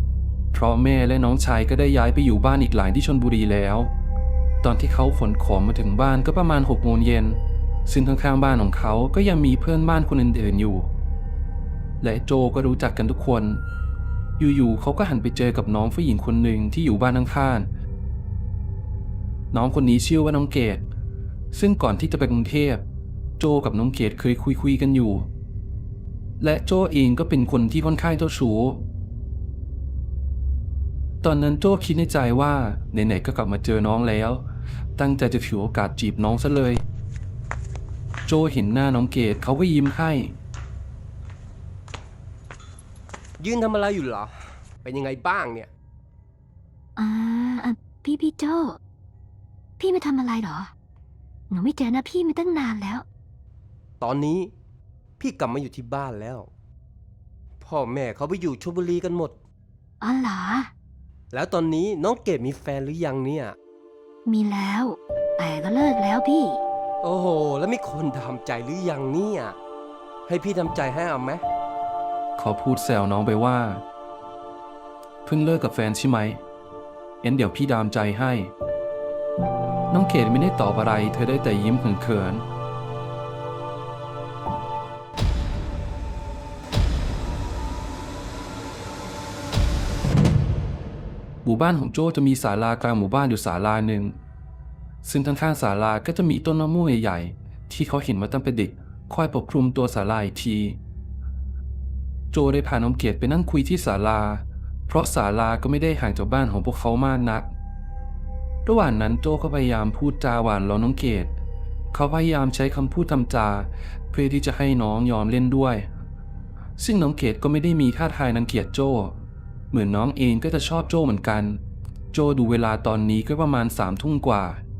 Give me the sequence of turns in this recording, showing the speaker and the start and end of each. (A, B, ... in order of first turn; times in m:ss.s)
0:00.5-0:03.9 A
0:04.6-0:10.9 A
0:12.0-0:13.6 A
0:14.4-0:17.7 A
0:19.5-0:20.8 A
0:21.5-0:22.8 A
0:23.4-0:25.3 A
0:26.4-0:28.8 A
0:31.2-0:36.8 A
0:38.2-0:40.4 A
0:43.4-0:45.7 B
0:47.0-0:48.8 C
0:49.8-0:50.7 C
0:51.5-0:53.0 C
0:54.0-0:54.5 B
0:55.2-0:56.5 B
0:57.6-0:59.4 B
1:00.0-1:00.7 C
1:01.3-1:03.6 B
1:04.2-1:06.6 C
1:07.0-1:09.6 B
1:10.3-1:11.4 B
1:12.4-1:13.8 A
1:15.2-1:16.4 A
1:17.2-1:18.5 A
1:19.9-1:22.4 A
1:31.4-1:34.2 A
1:35.0-1:40.8 A
1:42.3-1:47.5 A
1:48.6-1:51.3 A
1:51.9-1:55.9 A
1:56.8-1:59.2 A
1:59.7-2:01.6 A
2:02.1-2:04.6 A